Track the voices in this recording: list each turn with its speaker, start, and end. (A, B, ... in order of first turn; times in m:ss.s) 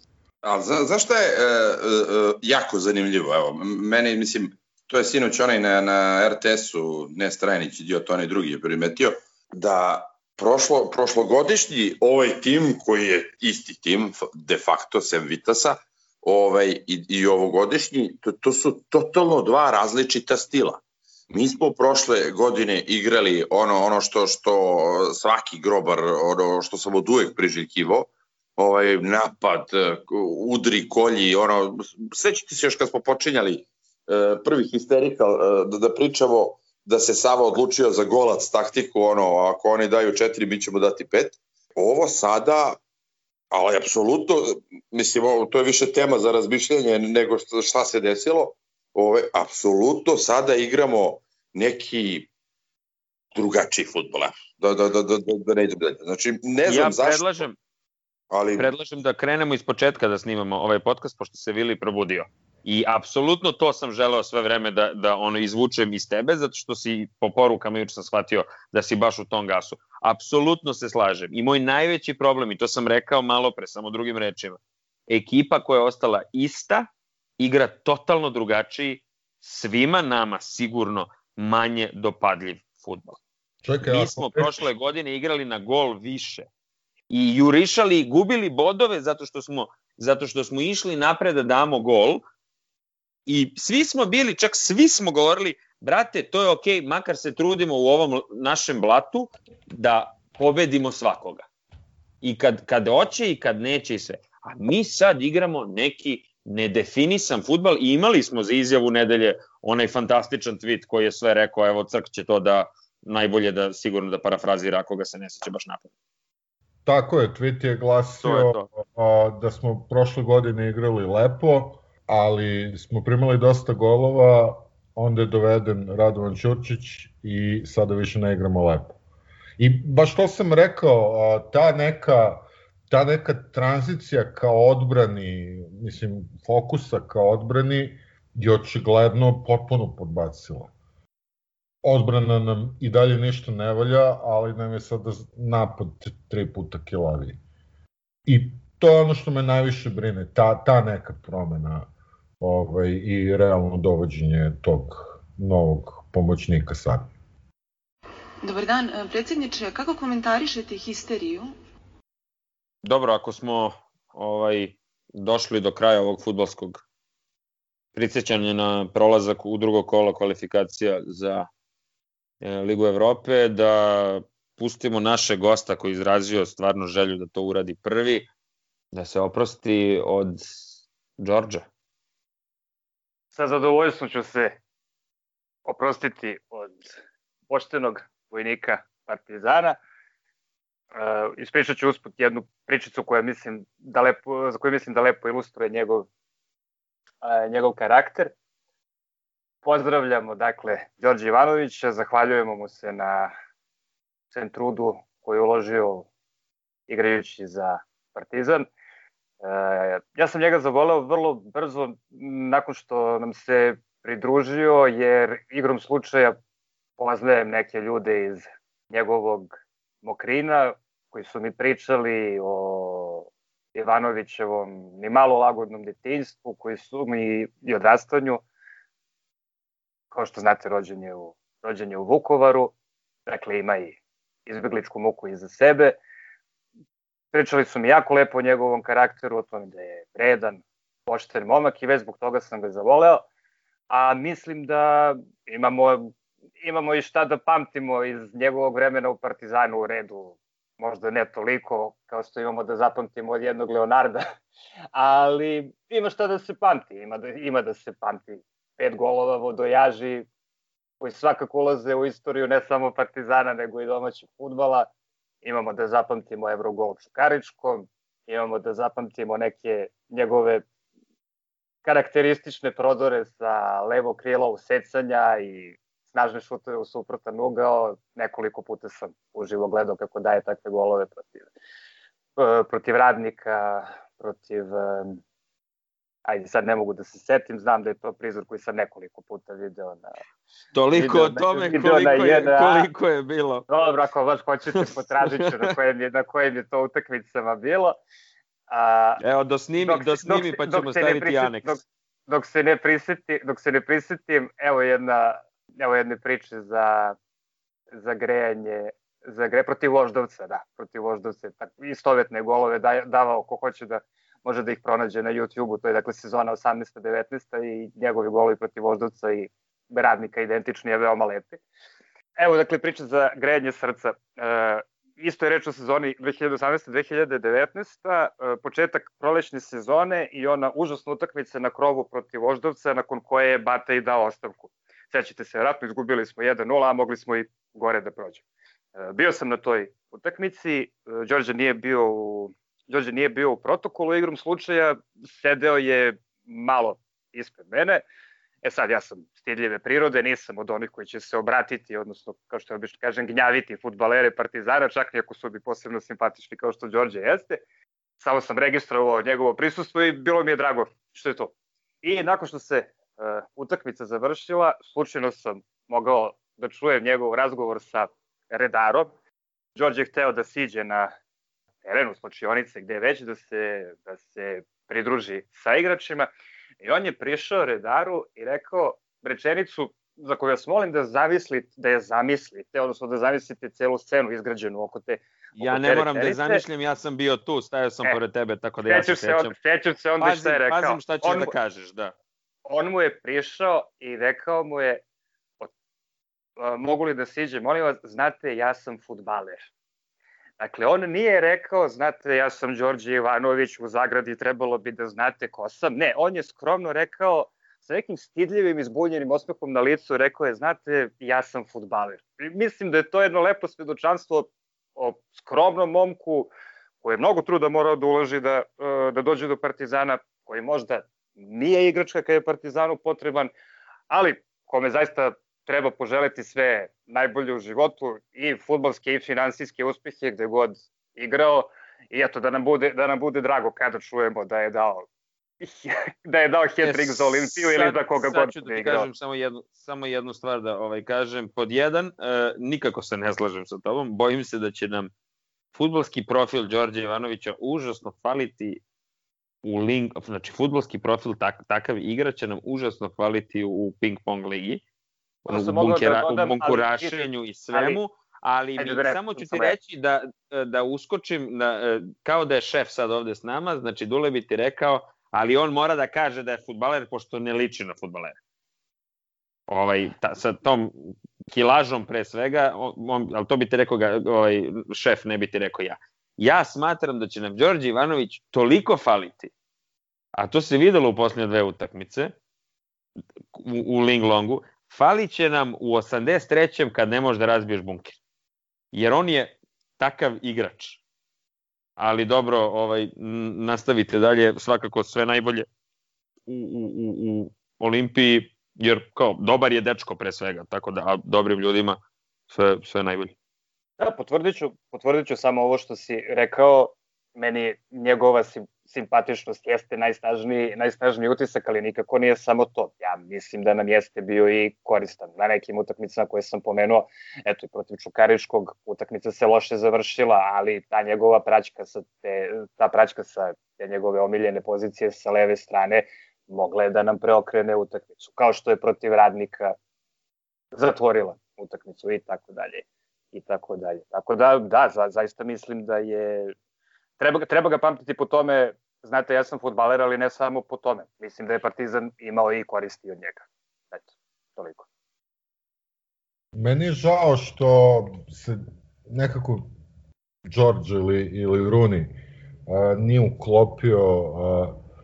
0:00.4-0:42.8 A
0:43.5-0:52.3 A
0:53.3-0:57.4 A
0:56.7-0:57.6 B
0:58.3-0:58.7 A
0:58.6-1:16.9 B
1:17.4-1:23.2 B
1:23.6-1:24.7 C
1:23.8-1:26.5 B
1:27.1-1:32.2 B
1:33.3-1:41.4 B
1:42.2-1:55.9 B
1:56.8-2:09.0 C
1:58.2-1:58.7 B
2:09.6-2:20.7 C
2:21.8-2:27.4 C
2:28.2-2:37.1 C
2:38.4-2:41.6 D
2:42.8-2:46.8 B
2:47.9-2:51.5 B
2:52.4-2:58.3 B
2:58.9-3:00.6 B
3:01.2-3:01.6 B
3:03.3-3:04.6 E
3:05.6-3:06.9 E
3:07.5-3:09.8 E
3:10.9-3:16.1 E
3:17.2-3:18.3 E
3:19.6-3:23.3 E
3:24.3-3:26.1 E
3:26.9-3:28.7 E
3:29.4-3:36.4 E
3:37.0-3:39.5 E
3:40.0-3:48.4 E
3:50.1-3:52.7 E
3:53.3-3:56.0 E
3:57.3-4:03.2 E
4:03.9-4:14.2 E
4:14.9-4:20.3 E
4:21.0-4:24.9 E
4:25.4-4:30.6 E
4:31.8-4:41.5 E
4:42.4-4:45.2 E
4:46.2-4:50.1 E
4:50.7-4:53.6 B
4:50.9-4:52.9 E
4:53.7-4:58.0 E
4:54.8-4:55.7 B
4:58.7-4:59.2 E
4:59.2-5:01.8 B
4:59.8-5:07.2 E
5:07.9-5:21.6 E
5:22.4-5:38.4 E
5:38.9-5:48.0 E
5:48.6-5:57.6 E
5:58.2-6:09.1 E
6:09.8-6:11.1 E
6:11.8-6:16.3 E
6:16.8-6:26.6 E
6:25.6-6:29.5 B
6:28.8-6:31.5 E
6:30.2-6:32.1 B
6:32.6-6:35.0 E
6:36.6-6:39.7 E
6:40.6-6:56.5 E
6:57.0-7:03.5 E
7:04.1-7:15.0 E
7:15.6-7:19.1 E
7:16.8-7:25.1 B
7:25.7-7:28.8 B
7:29.6-7:34.8 B
7:35.4-7:37.2 E
7:35.5-7:48.4 B
7:37.7-7:38.0 E
7:38.8-7:39.7 E
7:49.7-7:59.5 B
8:00.3-8:02.3 B
8:03.5-8:08.2 B
8:08.9-8:11.0 B
8:12.0-8:15.7 B
8:16.5-8:23.3 B
8:24.0-8:49.7 E
8:50.7-8:56.5 E
8:57.2-9:04.8 E
9:06.5-9:09.7 C
9:10.5-9:14.8 C